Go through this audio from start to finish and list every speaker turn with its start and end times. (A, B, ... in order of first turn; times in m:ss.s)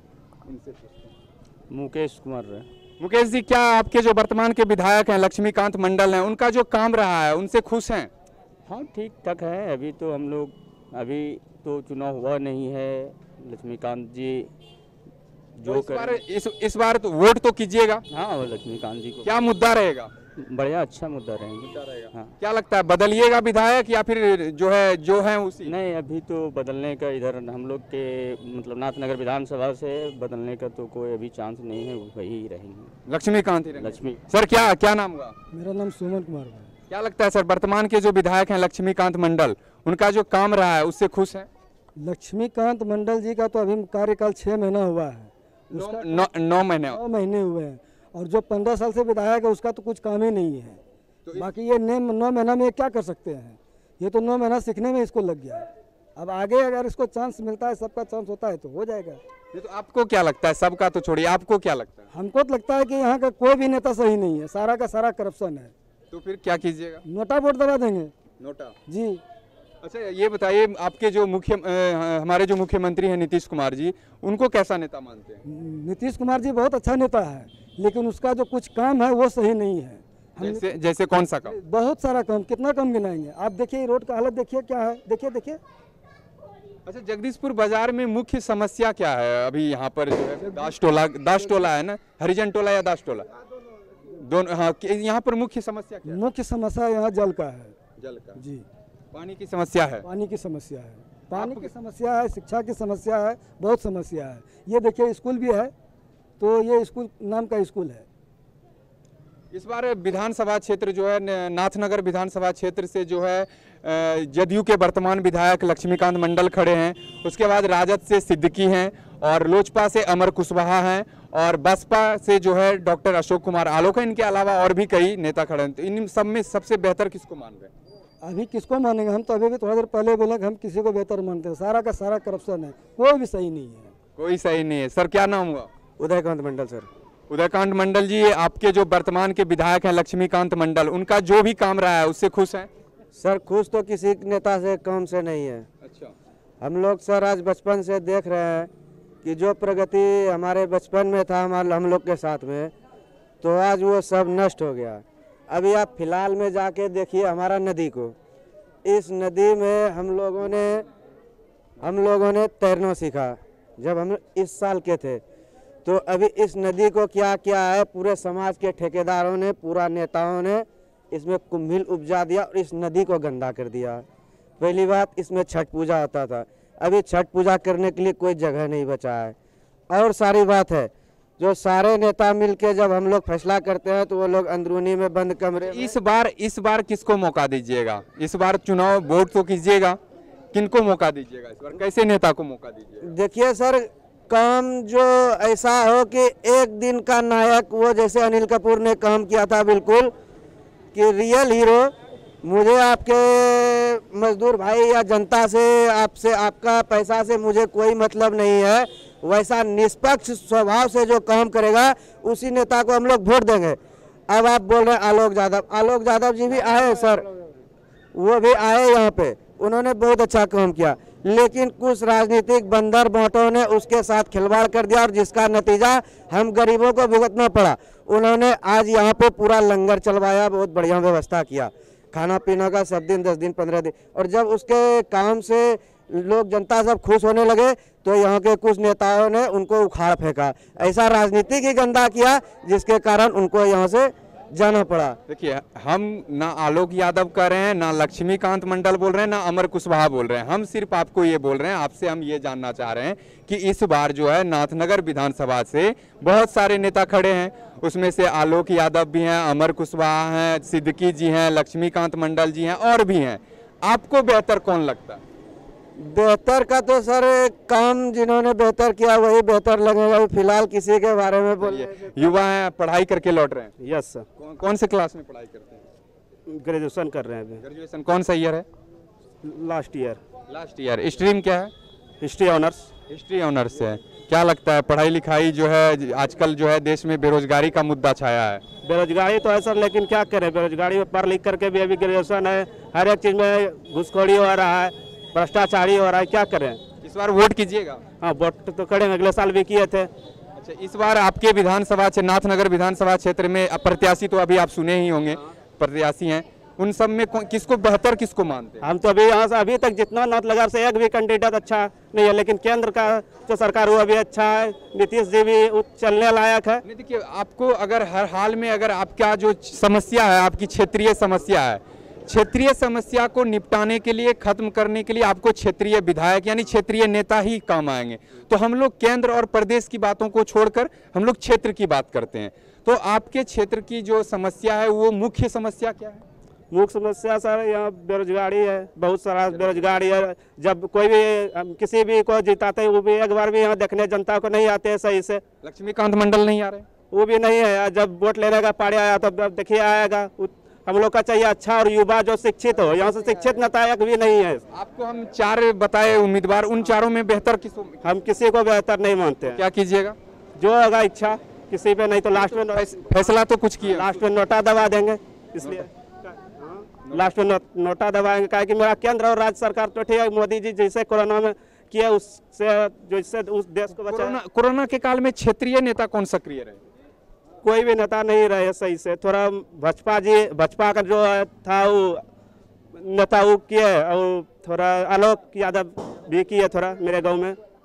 0:00.4-0:01.1 A
0:01.7-0:02.7 B
0:03.0-0:08.1 A
0:08.7-0:14.5 B
0:15.6-0:16.2 B
0:15.6-0:18.0 A
0:18.1-0:19.4 B
0:19.2-0:20.1 A
0:20.4-0:22.3 B
0:21.6-0:25.7 A
0:25.6-0:32.9 B
0:33.1-0:35.4 A
0:33.8-0:34.2 B
0:35.5-0:36.7 C
0:36.9-0:41.5 A
0:42.0-0:46.3 C
0:45.7-0:47.0 A
0:46.9-0:50.8 C
0:51.3-0:59.2 C
0:59.5-1:02.1 A
1:02.1-1:05.7 C
1:06.1-1:07.0 A
1:07.0-1:08.1 C
1:08.4-1:08.7 A
1:08.9-1:09.2 C
1:09.8-1:15.4 A
1:15.4-1:20.7 C
1:20.4-1:21.6 A
1:21.4-1:25.6 C
1:26.8-1:33.3 A
1:30.4-1:30.7 C
1:34.2-1:36.2 A
1:36.1-1:37.7 C
1:38.0-1:38.4 A
1:38.4-1:38.6 C
1:39.1-1:40.0 A
1:40.0-1:45.7 C
1:41.3-1:41.7 A
1:46.4-1:48.0 C
1:49.5-2:07.7 A
2:08.2-2:13.9 C
2:14.2-2:15.7 A
2:16.0-2:16.9 D
2:17.3-2:22.7 A
2:23.1-2:25.6 D
2:25.8-2:26.1 A
2:26.6-2:28.7 D
2:29.2-2:32.7 D
2:33.4-2:38.1 D
2:38.8-2:40.8 D
2:41.8-2:45.2 D
2:45.8-2:54.0 D
2:54.6-2:59.3 D
2:59.9-3:05.9 D
3:05.6-3:10.0 A
3:10.5-3:13.1 A
3:13.0-3:20.1 D
3:20.9-3:33.8 D
3:34.3-3:37.3 D
3:38.1-4:05.2 D
4:05.3-4:25.2 A
4:26.0-4:31.9 D
4:31.6-4:33.7 A
4:33.8-4:34.2 E
4:34.4-4:35.8 A
4:36.5-4:37.6 E
4:37.6-4:38.6 A
4:39.4-4:40.2 E
4:40.5-4:41.7 A
4:42.2-4:42.9 E
4:43.1-4:48.6 A
4:48.8-4:56.8 E
4:57.0-4:58.0 A
4:58.2-5:00.1 E
5:00.6-5:08.8 A
5:08.8-5:16.8 E
5:16.8-5:36.2 A
5:36.7-5:45.4 E
5:45.6-5:46.8 A
5:47.1-5:54.6 E
5:54.7-5:58.0 A
5:58.0-5:59.6 E
5:59.5-6:00.2 A
6:00.6-6:02.9 E
6:02.4-6:04.1 A
6:03.8-6:14.4 E
6:07.0-6:07.3 A
6:14.0-6:16.8 A
6:17.6-6:22.2 E
6:23.0-6:27.6 E